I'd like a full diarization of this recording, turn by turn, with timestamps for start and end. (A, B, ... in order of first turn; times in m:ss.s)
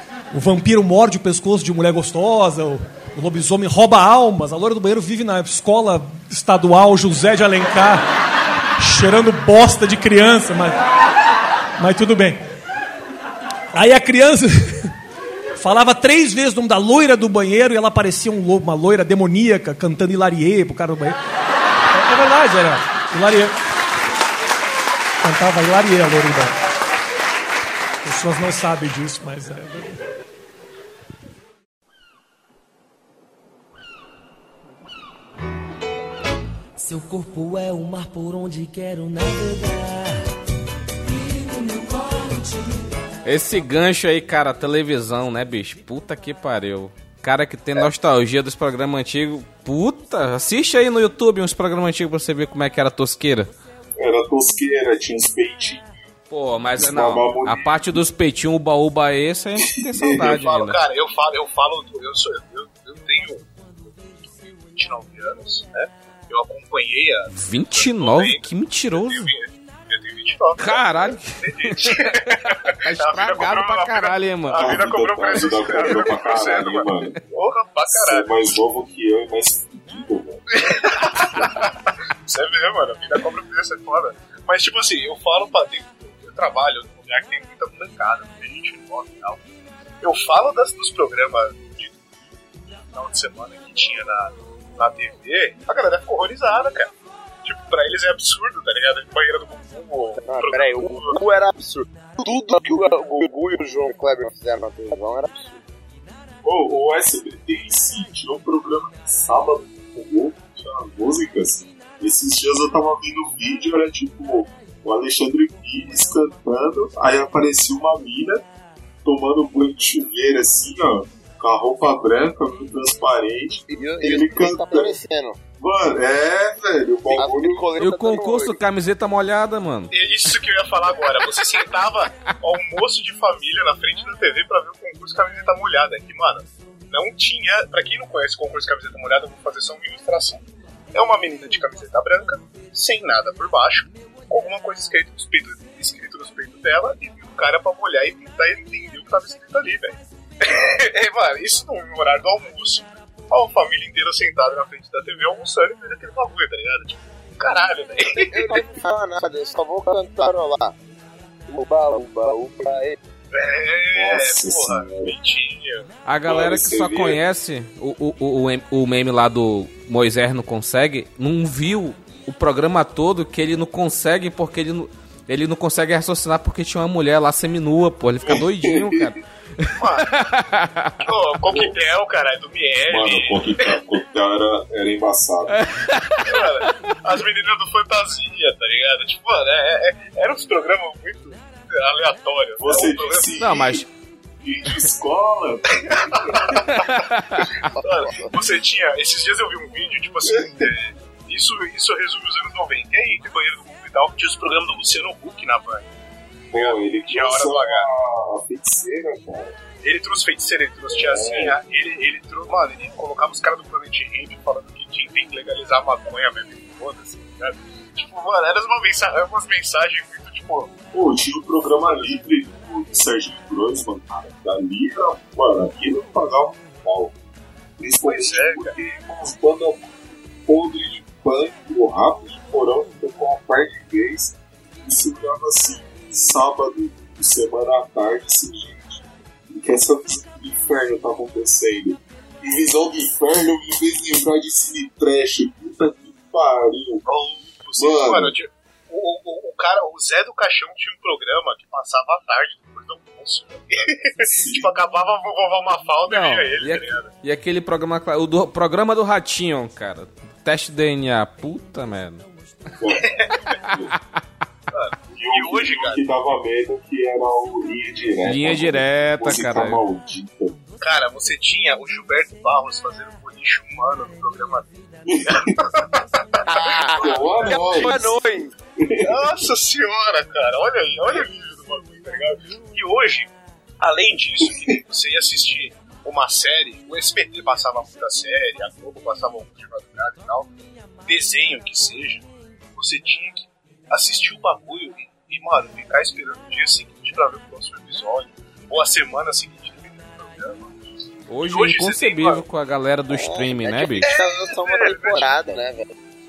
0:00.3-0:08.0 A
0:08.8-0:10.8 A
0:11.8-0:12.4 A
0:13.7-0:14.9 A
0:15.6-0:21.2 A
0:21.9-0:23.6 A
0:25.2-0:26.6 A
0:28.0-0:30.0 A
0:36.8-0:40.3 B
0:41.0-0:43.0 B
0:43.2-0:53.5 C
0:54.0-0:55.9 D
0:56.3-1:00.8 C
0:56.8-0:57.9 D
0:59.6-1:00.3 D
1:00.2-1:03.5 E
1:04.5-1:18.5 E
1:07.3-1:09.3 C
1:10.6-1:14.7 C
1:14.5-1:17.2 D
1:17.9-1:20.4 D
1:20.5-1:29.4 E
1:30.0-1:32.0 E
1:32.7-1:36.9 E
1:37.4-1:41.2 E
1:40.3-1:45.6 F
1:46.4-1:58.4 D
1:59.0-2:05.0 D
2:03.7-2:05.4 F
2:05.6-2:07.7 D
2:07.1-2:08.6 F
2:07.8-2:09.9 C
2:09.9-2:20.4 E
2:20.9-2:38.6 E
2:38.2-2:40.8 F
2:41.5-2:43.0 F
2:43.3-2:45.9 E
2:43.9-2:45.1 D
2:46.1-3:01.1 C
2:46.2-2:47.2 D
2:58.2-2:59.2 D
2:59.8-3:00.3 E
3:01.0-3:03.8 E
3:01.5-3:01.7 D
3:02.8-3:05.7 D
3:05.5-3:06.7 C
3:06.2-3:13.3 E
3:12.6-3:13.8 D
3:13.4-3:13.9 C
3:14.4-3:16.7 D
3:15.8-3:16.8 E
3:16.7-3:17.7 C
3:17.8-3:25.9 E
3:17.8-3:18.3 F
3:20.2-3:20.7 D
3:26.5-3:29.6 D
3:26.5-3:27.9 E
3:29.8-3:40.7 E
3:30.9-3:31.6 D
3:40.9-3:47.2 D
3:47.8-4:07.0 D
3:48.0-3:48.8 E
4:07.1-4:17.1 E
4:07.8-4:08.4 D
4:14.2-4:14.8 D
4:16.1-4:22.2 C
4:22.8-4:23.9 D
4:23.0-4:23.5 E
4:24.7-4:26.0 E
4:25.1-4:30.6 D
4:28.2-4:29.8 C
4:30.8-4:34.7 E
4:35.1-4:35.6 D
4:35.2-4:37.8 E
4:36.4-4:38.5 F
4:36.7-4:38.2 D
4:38.8-4:39.4 D
4:39.0-4:43.3 E
4:43.8-4:50.5 E
4:51.1-5:00.7 E
5:01.3-5:04.1 C
5:01.4-5:02.4 E
5:03.1-5:05.9 F
5:04.0-5:05.3 E